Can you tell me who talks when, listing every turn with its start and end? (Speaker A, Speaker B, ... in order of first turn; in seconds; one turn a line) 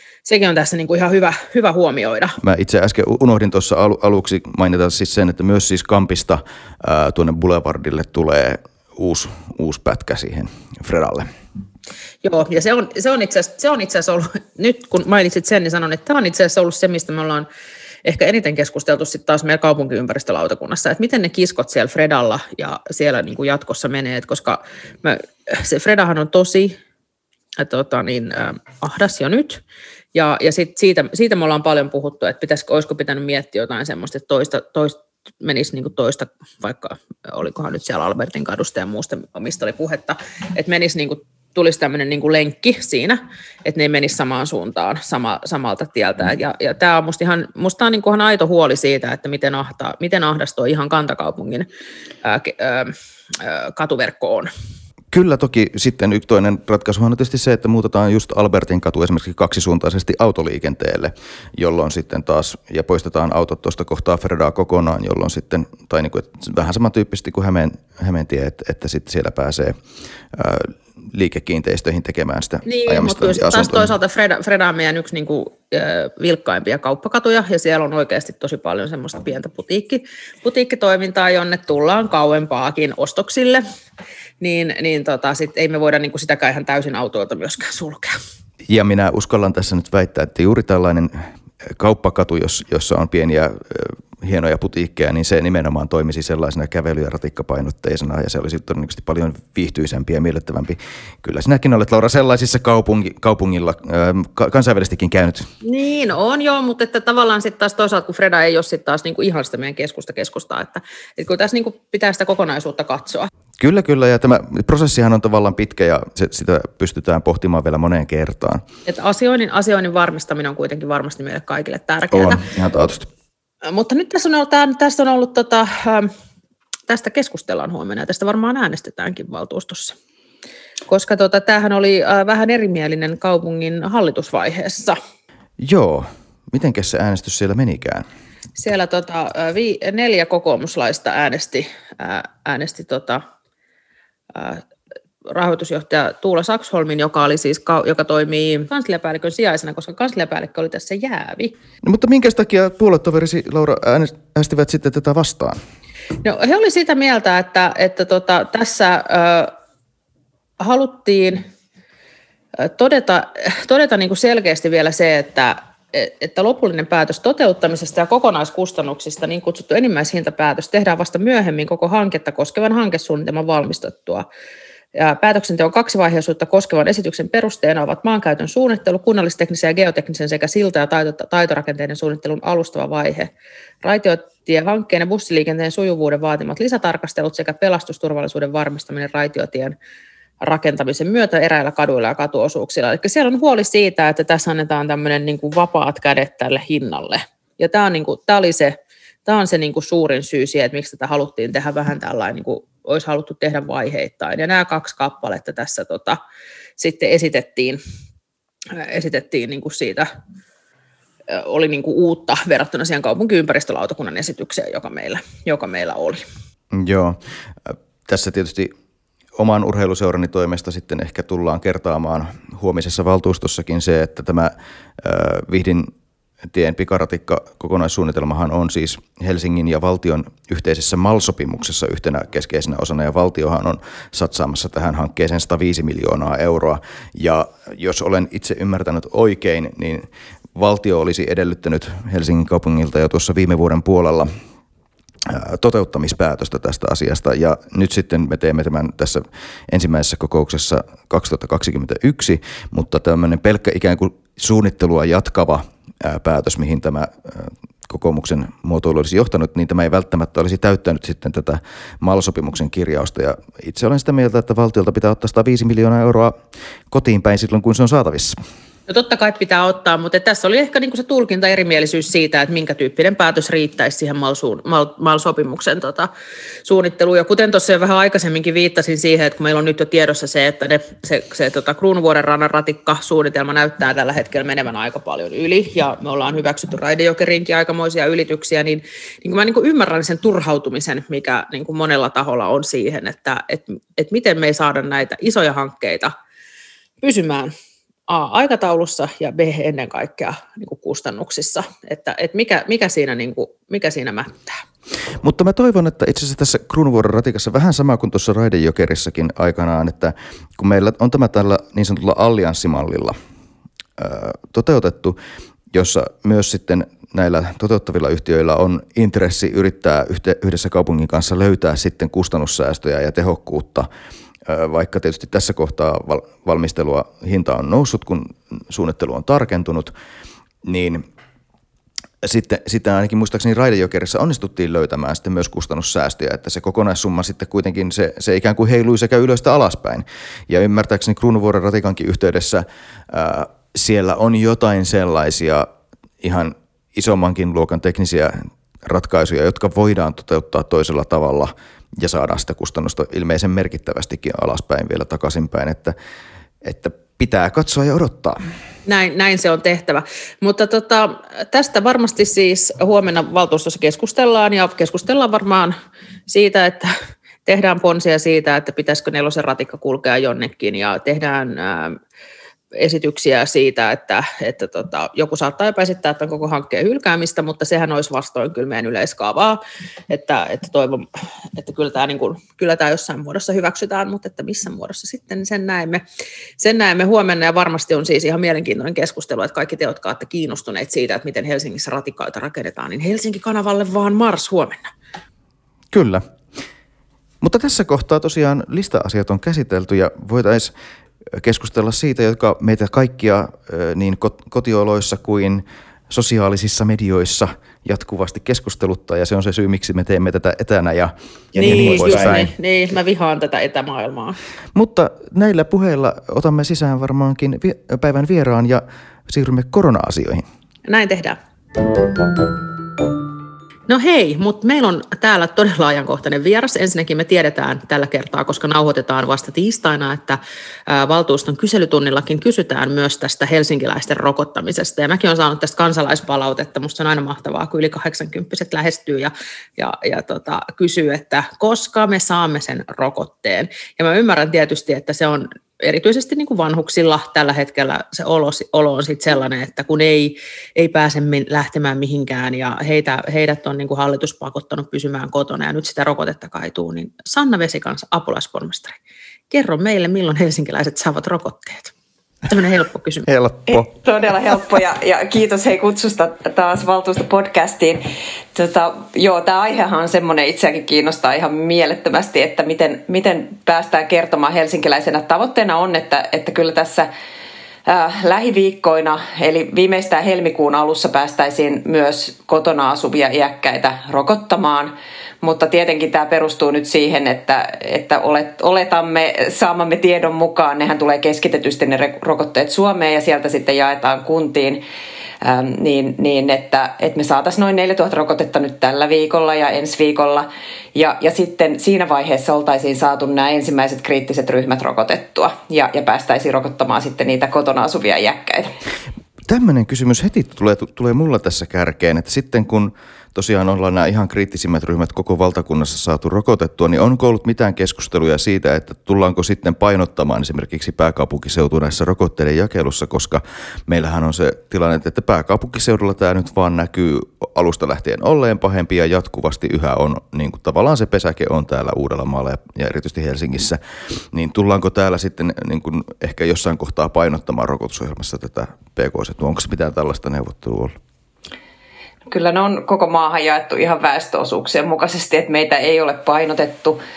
Speaker A: 0.2-2.4
Speaker B: 2.4-11.3
Speaker A: 12.2-17.5
Speaker A: 18.1-26.8
Speaker A: 27.6-29.6
Speaker A: 30.1-51.7
Speaker A: 52.2-54.5
Speaker B: 55.1-69.8
Speaker B: 70.3-73.9
Speaker A: 72.7-83.6
Speaker A: 84.4-88.2
Speaker B: 88.7-105.5
Speaker A: 105.6-113.3
Speaker B: 113.6-118.6
Speaker A: 118.9-122.4
Speaker B: 122.1-123.1
Speaker A: 123.7-126.1
Speaker A: 126.9-130.0
Speaker A: 130.9-135.0
Speaker B: 135.6-138.1
Speaker A: 138.6-143.2
Speaker A: 144.3-144.6
Speaker A: 145.3-151.6
Speaker B: 151.8-155.6
Speaker A: 156.2-159.5
Speaker A: 160.6-161.5
Speaker A: 162.6-174.3
Speaker A: 174.9-183.3
Speaker A: 183.8-189.8
Speaker A: 190.4-206.2
Speaker A: 206.8-207.8
Speaker A: 208.7-210.1
Speaker A: 211.3-216.2
Speaker B: 216.7-218.7
Speaker B: 219.4-225.9
Speaker B: 226.5-244.3
Speaker B: 245.3-266.4
Speaker B: 266.9-268.4
Speaker A: 268.9-276.1
Speaker A: 276.6-296.1
Speaker A: 297.0-297.5
Speaker A: 298.1-304.6
Speaker B: 305.2-313.2
Speaker B: 314.0-315.2
Speaker B: 315.7-323.9
Speaker B: 324.5-329.9
Speaker B: 330.6-331.0
Speaker B: 332.2-345.7
Speaker B: 346.2-355.9
Speaker B: 356.6-358.4
Speaker A: 358.9-365.8
Speaker A: 366.3-372.0
Speaker A: 372.8-386.0
Speaker A: 386.6-394.9
Speaker B: 395.9-396.2
Speaker B: 397.4-400.7
Speaker B: 401.4-412.5
Speaker A: 411.6-414.4
Speaker B: 414.8-420.4
Speaker A: 420.9-421.4
Speaker A: 423.9-459.0
Speaker A: 459.5-461.9
Speaker A: 462.5-463.3
Speaker B: 463.3-463.9
Speaker C: 463.7-477.1
Speaker C: 477.9-494.8
Speaker C: 495.4-508.7
Speaker B: 509.5-533.8
Speaker B: 534.3-541.0
Speaker C: 542.3-547.0